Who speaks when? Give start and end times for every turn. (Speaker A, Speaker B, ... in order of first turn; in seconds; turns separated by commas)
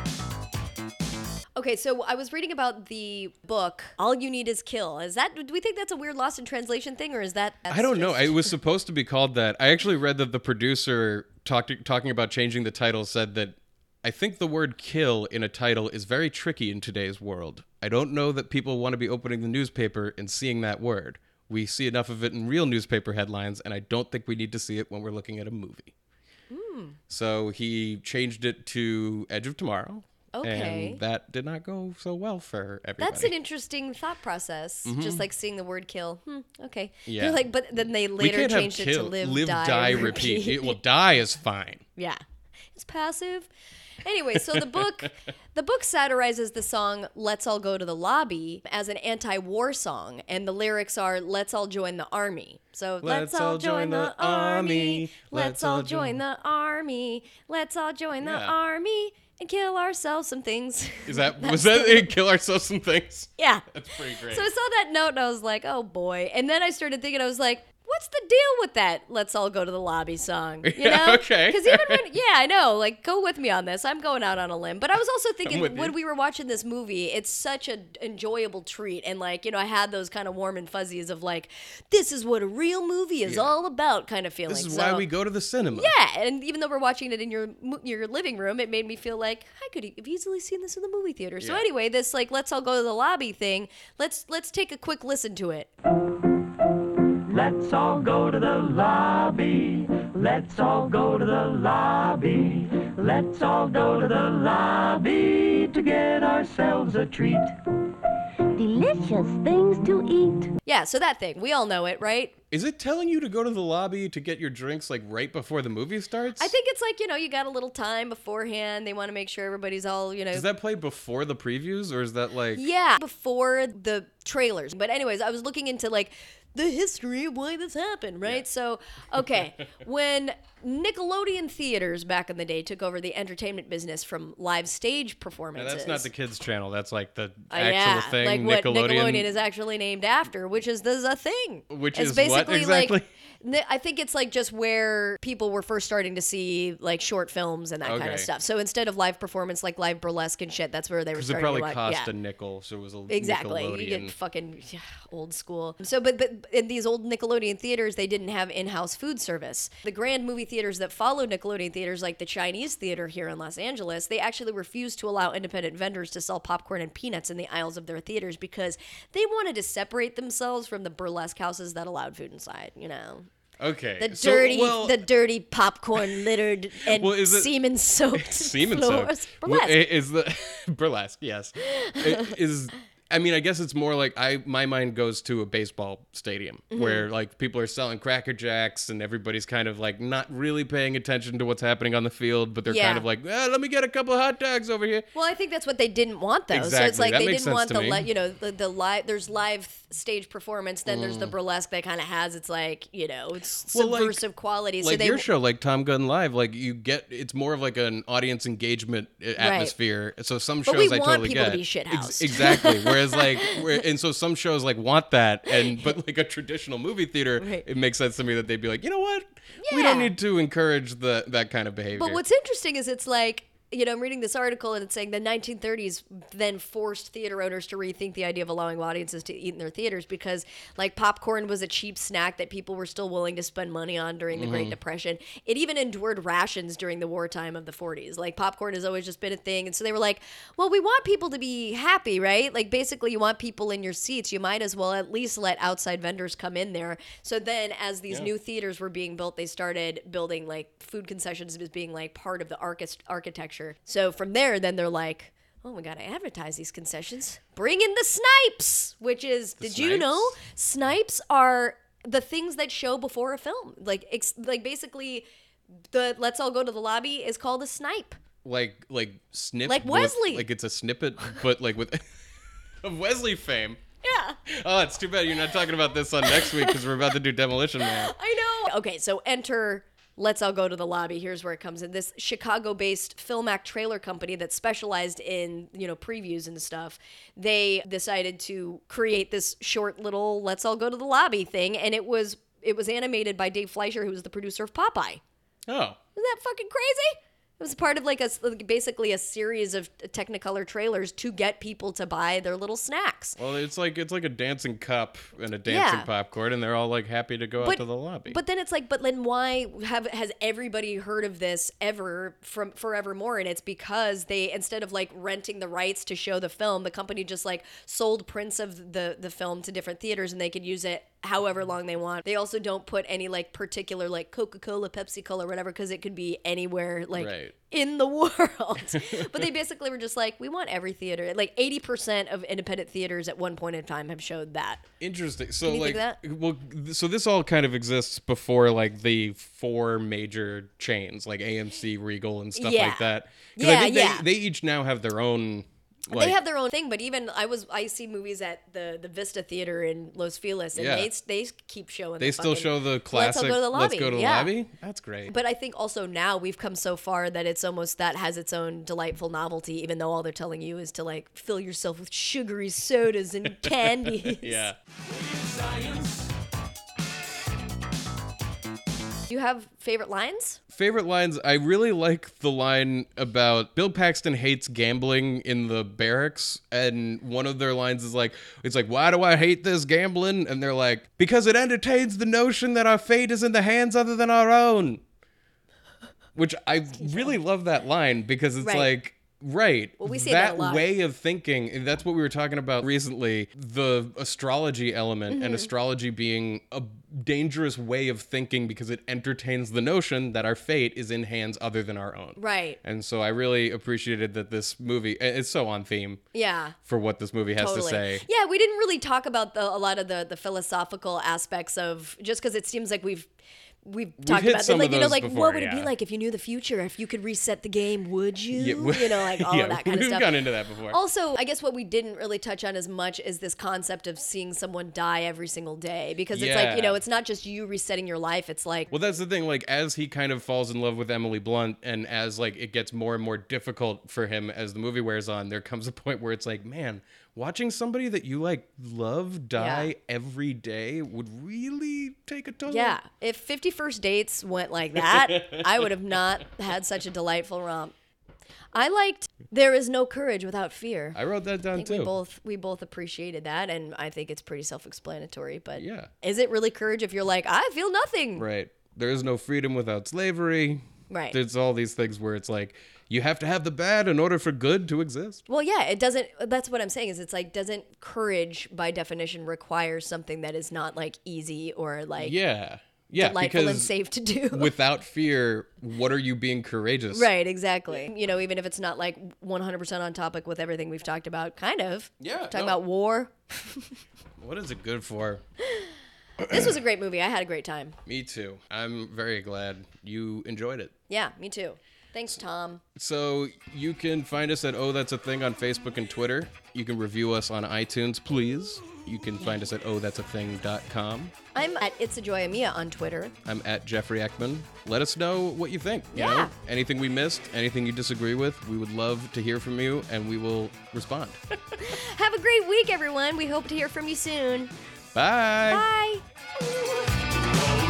Speaker A: 1.6-8.5, Speaker B: 7.7-25.9, Speaker A: 26.5-27.0, Speaker B: 27.1-33.3, Speaker A: 30.3-31.0, Speaker A: 33.0-40.8, Speaker B: 34.8-35.2, Speaker B: 37.0-37.4, Speaker B: 38.2-41.8, Speaker A: 42.7-43.5, Speaker A: 44.0-62.1, Speaker B: 44.3-45.1, Speaker B: 53.0-56.2, Speaker B: 58.2-58.5, Speaker B: 61.0-64.5, Speaker A: 63.4-85.0, Speaker B: 70.6-72.0, Speaker B: 75.5-76.0, Speaker B: 83.2-83.5, Speaker B: 84.5-85.9, Speaker A: 85.7-95.7, Speaker B: 91.4-91.7, Speaker C: 97.3-107.5, Speaker D: 108.5-110.5, Speaker A: 110.6-112.4, Speaker B: 112.5-116.5, Speaker A: 116.4-120.5, Speaker B: 120.3-122.6, Speaker A: 122.5-136.1, Speaker B: 135.5-139.3, Speaker A: 137.5-152.1, Speaker B: 141.7-143.1, Speaker B: 147.8-148.3, Speaker B: 151.1-154.1, Speaker A: 153.1-173.3, Speaker B: 173.6-175.1, Speaker A: 174.0-179.8, Speaker B: 176.0-176.2, Speaker B: 176.8-177.5, Speaker B: 178.1-195.1, Speaker A: 181.6-182.3, Speaker A: 186.7-187.1, Speaker A: 192.7-193.1, Speaker A: 195.1-205.3, Speaker B: 196.5-198.1, Speaker B: 200.9-201.3, Speaker B: 203.7-204.2, Speaker B: 204.8-222.2, Speaker A: 209.4-209.7, Speaker A: 210.7-213.7, Speaker A: 217.4-217.7, Speaker A: 219.6-220.1, Speaker A: 221.9-265.2, Speaker B: 234.3-234.8, Speaker B: 259.6-260.4, Speaker A: 265.9-268.2, Speaker B: 268.4-272.1, Speaker A: 269.6-270.5, Speaker B: 272.8-273.8, Speaker A: 274.0-274.4, Speaker B: 274.4-278.1, Speaker A: 276.2-276.8, Speaker A: 277.8-295.2, Speaker B: 295.7-296.0, Speaker A: 296.1-303.4, Speaker B: 303.4-308.4, Speaker A: 305.7-306.1, Speaker A: 307.6-334.8, Speaker B: 327.1-327.5, Speaker B: 328.9-329.5, Speaker B: 335.0-346.4, Speaker A: 335.6-336.2, Speaker A: 342.5-344.2, Speaker A: 346.1-354.5, Speaker B: 350.7-351.1, Speaker B: 352.2-355.3, Speaker A: 355.3-364.7, Speaker B: 363.6-364.8, Speaker A: 369.3-370.6, Speaker B: 370.7-385.0, Speaker B: 386.3-406.2, Speaker A: 387.0-387.3, Speaker A: 388.6-388.9, Speaker A: 390.0-390.9, Speaker A: 395.3-395.7, Speaker A: 402.4-402.8, Speaker A: 406.3-406.8, Speaker B: 406.8-408.2, Speaker A: 407.6-413.3, Speaker A: 413.8-420.3, Speaker B: 414.2-415.9, Speaker B: 418.5-421.0, Speaker A: 420.9-428.9, Speaker B: 426.3-427.0, Speaker B: 428.9-443.0, Speaker A: 439.6-439.9, Speaker A: 442.7-447.9, Speaker B: 444.9-446.4, Speaker A: 448.7-451.2, Speaker B: 451.1-452.1, Speaker A: 451.7-458.4, Speaker B: 455.8-456.1, Speaker B: 458.4-465.4, Speaker A: 461.1-461.4, Speaker A: 465.5-472.3, Speaker B: 472.2-473.9, Speaker A: 473.1-474.7, Speaker B: 474.5-477.3, Speaker A: 477.1-483.9, Speaker B: 482.2-482.8, Speaker B: 484.4-485.4, Speaker B: 486.4-486.7, Speaker A: 486.5-488.0, Speaker B: 488.1-490.9, Speaker A: 491.1-492.8, Speaker B: 492.9-501.3, Speaker A: 501.5-503.3, Speaker B: 503.4-511.4, Speaker A: 506.1-506.5, Speaker A: 511.8-514.7, Speaker B: 515.1-515.9, Speaker A: 515.6-516.2